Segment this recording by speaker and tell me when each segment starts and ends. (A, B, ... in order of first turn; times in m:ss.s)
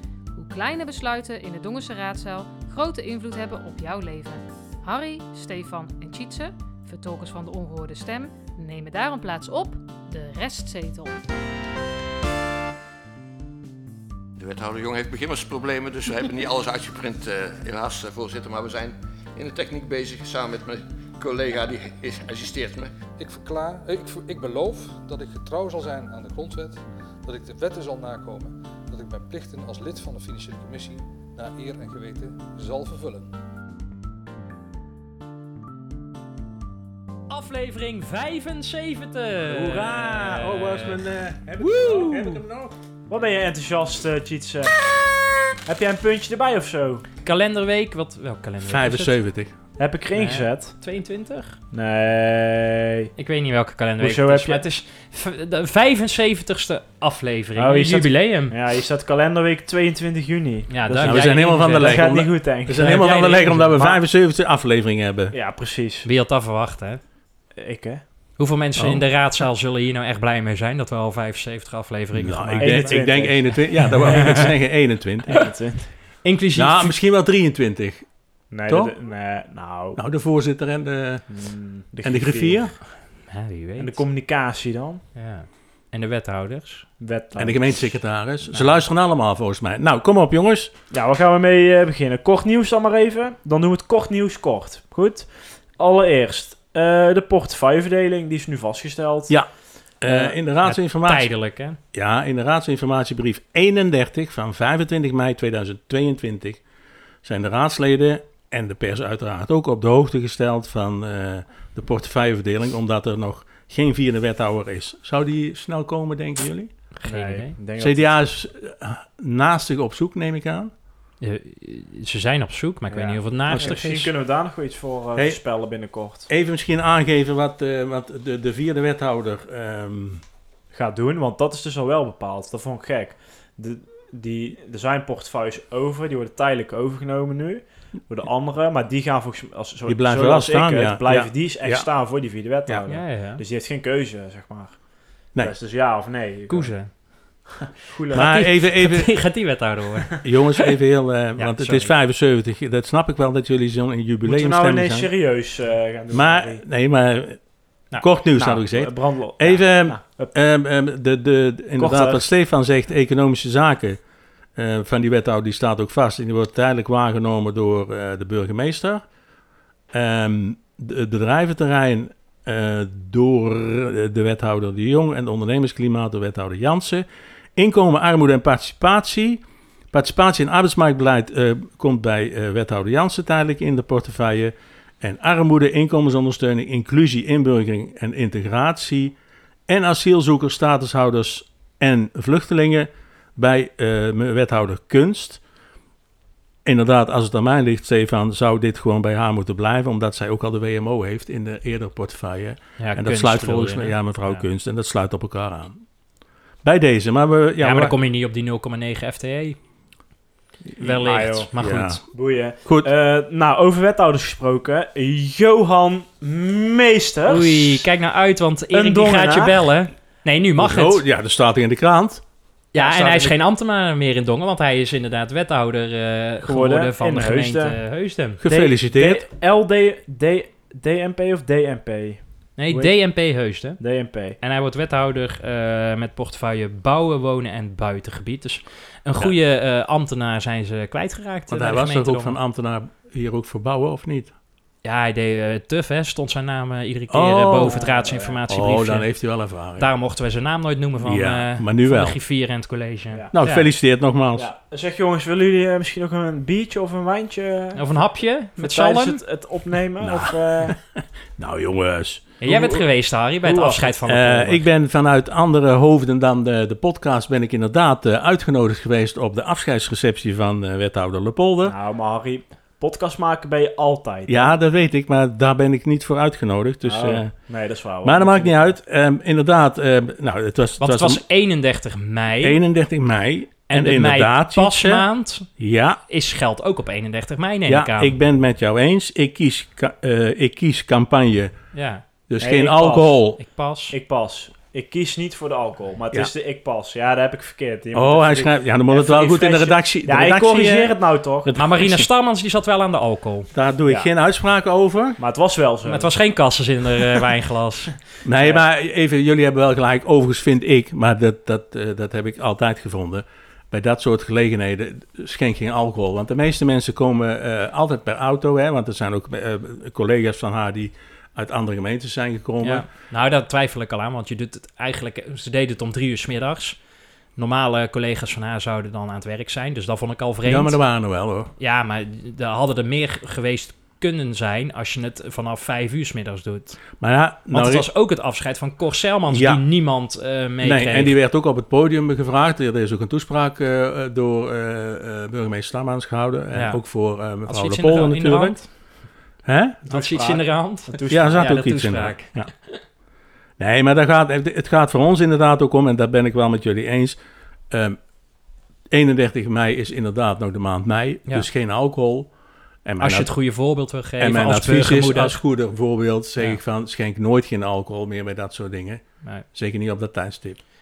0:00.3-0:11.2 A
0:14.4-0:23.0 B
0:23.2-0:33.3 C
0:37.3-0:41.0 D
0:39.5-0:42.8 E
0:41.6-0:42.3 D
0:43.1-0:44.8 F
0:45.6-0:47.0 F
0:47.2-0:49.1 D
0:48.6-0:49.5 E
0:49.8-0:50.8 F
0:50.1-0:51.6 D
0:51.7-0:53.1 F
0:53.2-0:58.5 D
0:54.0-0:54.6 F
0:57.6-1:04.0 F
1:00.7-1:03.6 D
1:01.0-1:05.3 E
1:05.3-1:06.1 F
1:06.0-1:07.0 D
1:07.5-1:08.1 F
1:08.4-1:14.3 D
1:08.8-1:09.0 E
1:12.1-1:15.5 E
1:12.6-1:14.5 F
1:15.3-1:16.2 F
1:16.2-1:17.0 D
1:16.5-1:18.9 E
1:18.5-1:20.0 F
1:19.9-1:21.2 E
1:21.3-1:22.8 F
1:22.0-1:22.8 E
1:23.0-1:24.0 D
1:23.8-1:25.0 F
1:25.1-1:26.9 D
1:27.0-1:28.0 F
1:27.4-1:30.7 E
1:28.5-1:28.8 D
1:30.9-1:39.4 F
1:39.3-1:41.3 E
1:40.0-1:40.3 F
1:40.6-1:41.8 D
1:41.9-1:46.6 E
1:47.2-1:56.7 E
1:57.0-1:57.5 D
1:57.0-1:58.1 F
1:57.8-2:00.7 E
2:01.2-2:04.0 D
2:02.9-2:06.3 F
2:03.5-2:04.1 E
2:05.1-2:05.4 E
2:06.3-2:10.2 E
2:10.7-2:27.0 F
2:19.9-2:21.9 E
2:22.9-2:23.4 D
2:26.5-2:27.5 D
2:27.8-2:28.6 F
2:28.1-2:29.2 E
2:28.1-2:30.3 D
2:30.2-2:35.1 E
2:31.4-2:31.9 D
2:34.2-2:36.6 F
2:36.1-2:44.0 E
2:38.4-2:40.3 F
2:41.8-2:42.3 F
2:44.6-2:49.0 E
2:49.9-3:09.2 E
3:09.7-3:15.4 E
3:16.6-3:25.8 E
3:22.8-3:24.4 D
3:26.6-3:27.9 E
3:27.6-3:29.6 D
3:30.7-3:32.0 E
3:30.8-3:32.0 D
3:31.0-3:31.5 F
3:32.1-3:37.9 F
3:32.6-3:32.9 E
3:37.3-3:41.0 D
3:38.7-3:39.6 F
3:40.6-3:43.4 E
3:42.7-3:48.4 D
3:46.4-3:47.8 F
3:48.4-3:49.2 E
3:48.4-3:54.4 F
3:52.6-4:02.4 D
4:01.5-4:04.3 E
4:04.8-4:13.7 D
4:07.1-4:07.8 E
4:07.6-4:08.4 F
4:08.5-4:09.9 E
4:11.0-4:12.2 E
4:13.1-4:13.5 F
4:13.3-4:14.5 E
4:14.3-4:17.8 F
4:17.8-4:19.2 D
4:18.6-4:20.8 F
4:20.0-4:22.8 E
4:22.4-4:24.6 D
4:23.5-4:31.8 E
4:31.6-4:34.5 F
4:34.3-4:41.2 E
4:36.8-4:38.7 F
4:40.8-4:42.6 D
4:42.4-4:46.0 E
4:43.7-4:45.5 D
4:46.1-4:48.1 D
4:47.7-4:51.5 E
4:51.7-4:52.0 D
4:52.3-4:53.4 E
4:52.4-4:53.2 F
4:53.4-4:53.9 D
4:53.9-5:01.7 F
4:57.9-5:00.9 E
5:01.4-5:02.1 E
5:01.6-5:03.5 D
5:03.5-5:05.2 E
5:05.2-5:06.1 F
5:05.9-5:07.9 D
5:08.2-5:22.9 E
5:08.4-5:08.6 F
5:22.6-5:26.8 D
5:27.4-5:30.8 D
5:30.4-5:31.5 E
5:31.6-5:36.8 D
5:37.0-5:37.9 E
5:37.5-5:41.2 D
5:39.3-5:39.6 E
5:40.6-5:48.7 E
5:46.5-5:46.8 D
5:47.4-5:48.7 D
5:49.4-5:49.8 E
5:49.9-5:51.7 F
5:49.9-5:52.8 D
5:51.1-5:52.5 E
5:53.6-5:57.2 E
5:57.7-5:58.0 E
5:58.9-6:02.3 E
6:02.8-6:03.3 E
6:03.0-6:05.4 D
6:04.2-6:10.6 E